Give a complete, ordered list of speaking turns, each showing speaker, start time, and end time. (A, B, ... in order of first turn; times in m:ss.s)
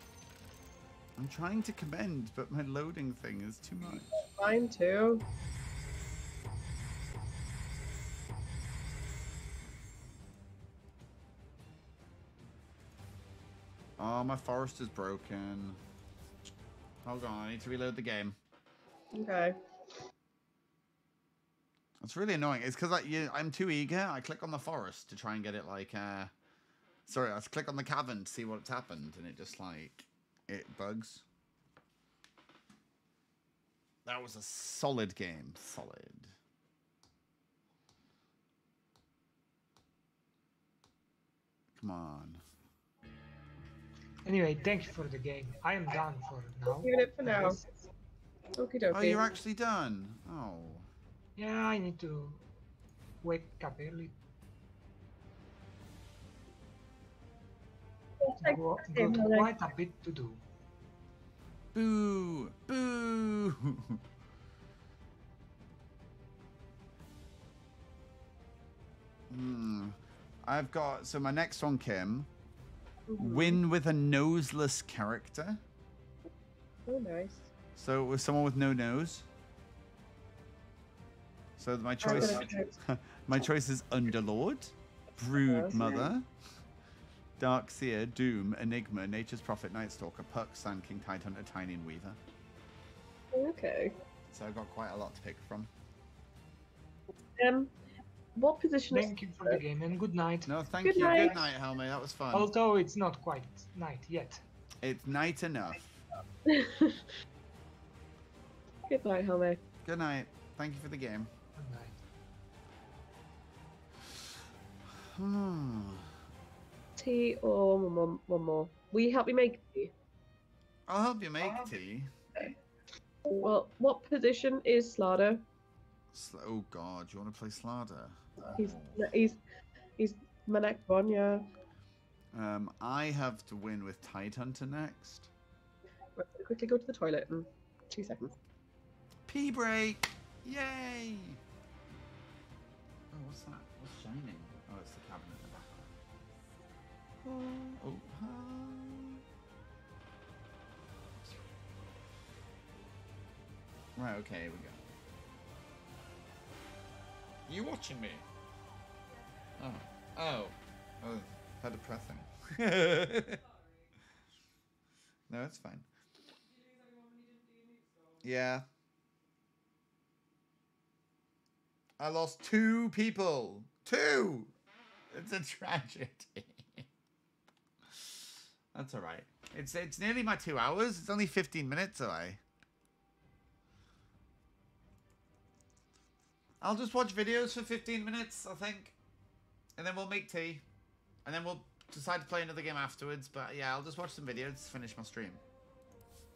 0:01.2-0:04.2 A
0:03.9-0:05.2 B
0:14.0-0:15.8 A
0:17.0-0:18.4 A
0:19.1-0:19.6 B
0:22.0-0:26.3 A
0:27.1-0:31.2 A
0:34.0-0:36.3 A
0:41.8-0:42.4 A
0:44.2-0:47.6 C
0:46.8-0:47.6 B
0:48.6-0:49.2 B
0:48.9-0:50.9 A
0:51.4-0:52.4 C
0:53.2-0:54.1 C
0:58.2-0:59.5 B
0:58.4-1:00.4 C
1:01.7-1:04.0 A
1:09.3-1:12.3 A
1:13.1-1:13.6 B
1:13.2-1:15.6 A
1:16.9-1:17.5 B
1:17.8-1:19.3 A
1:21.6-1:26.3 A
1:22.0-1:22.8 B
1:25.4-1:26.1 B
1:27.4-1:32.2 A
1:33.3-1:33.9 B
1:34.3-1:35.7 A
1:37.4-1:37.7 B
1:38.3-1:39.6 B
1:38.9-1:41.3 C
1:40.4-1:42.5 A
1:40.8-1:41.4 B
1:42.3-1:44.4 C
1:44.8-1:46.0 A
1:46.4-1:47.1 B
1:48.9-1:49.6 B
1:49.8-1:51.3 A
1:51.6-1:51.9 C
1:55.1-1:56.1 A
1:57.0-1:59.9 B
2:00.9-2:02.5 A
2:03.3-2:05.4 B
2:06.1-2:09.1 A
2:08.5-2:09.4 B
2:10.0-2:11.4 B
2:12.3-2:15.3 A
2:16.2-2:18.3 B
2:19.3-2:21.4 A
2:23.1-2:25.9 A
2:27.2-2:29.2 A
2:34.0-2:34.8 A
2:37.5-2:38.2 A
2:39.6-2:43.4 A
2:45.3-2:45.8 A
2:48.2-2:48.6 A
2:52.0-2:54.5 A
2:55.1-2:56.8 A
2:58.7-3:02.4 A
3:06.6-3:08.9 A
3:09.8-3:10.6 A
3:11.2-3:15.4 A